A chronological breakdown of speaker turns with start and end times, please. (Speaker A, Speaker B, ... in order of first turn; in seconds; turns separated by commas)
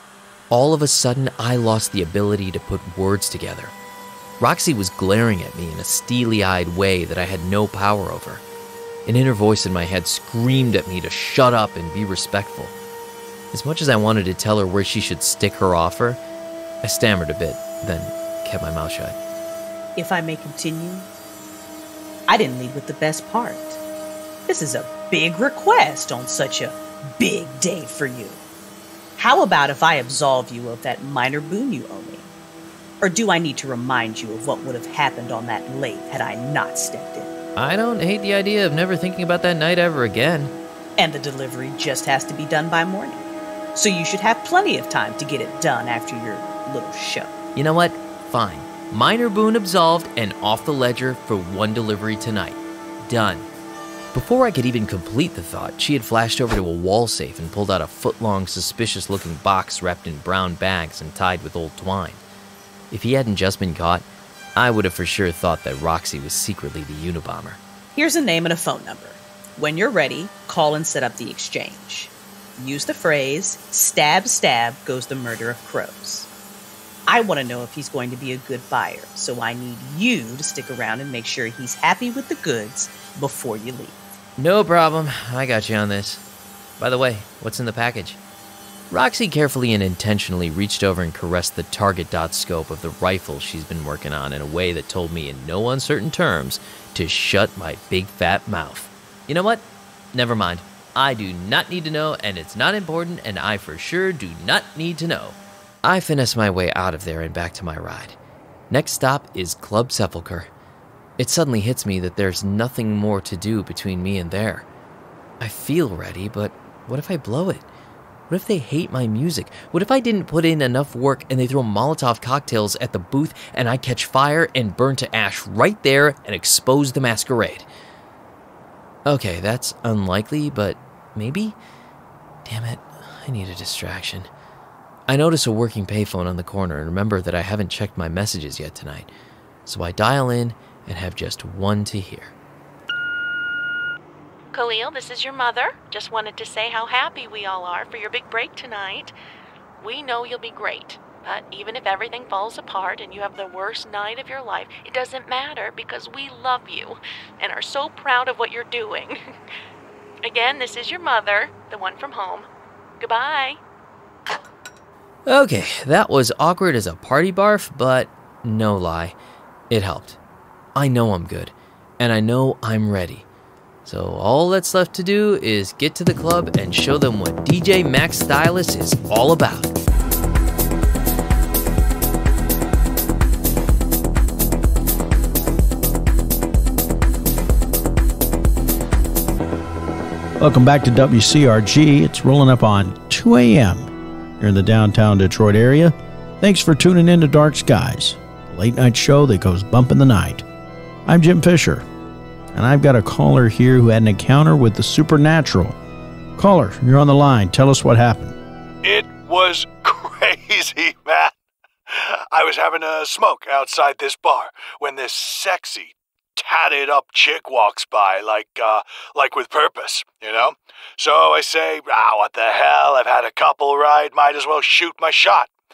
Speaker A: 0.5-3.7, Speaker A: 4.4-8.4, Speaker A: 9.1-12.7, Speaker A: 13.5-16.2, Speaker A: 16.8-19.1, Speaker B: 19.9-21.1, Speaker B: 22.3-23.8, Speaker B: 24.5-28.4, Speaker B: 29.2-32.3, Speaker B: 33.0-37.3, Speaker A: 37.6-40.5, Speaker B: 41.0-47.3, Speaker A: 47.5-53.5, Speaker A: 54.1-62.2, Speaker A: 62.9-67.6, Speaker B: 67.9-76.3, Speaker B: 77.1-84.0, Speaker A: 84.4-86.2, Speaker A: 86.8-88.2, Speaker A: 88.9-108.2, Speaker A: 108.7-110.5, Speaker A: 111.2-114.7, Speaker A: 115.4-117.7, Speaker A: 118.3-127.7, Speaker A: 129.1-131.6, Speaker A: 132.4-134.3, Speaker A: 135.1-139.1, Speaker A: 139.7-142.3, Speaker C: 144.5-149.1, Speaker C: 149.8-159.2, Speaker C: 160.2-162.5, Speaker C: 163.0-163.6, Speaker A: 165.3-169.1, Speaker A: 169.7-170.2, Speaker A: 170.8-173.2, Speaker A: 173.8-179.7, Speaker D: 190.4-200.4, Speaker D: 201.1-201.8, Speaker D: 202.5-205.8, Speaker D: 206.4-208.4, Speaker E: 208.8-211.3, Speaker E: 211.9-225.5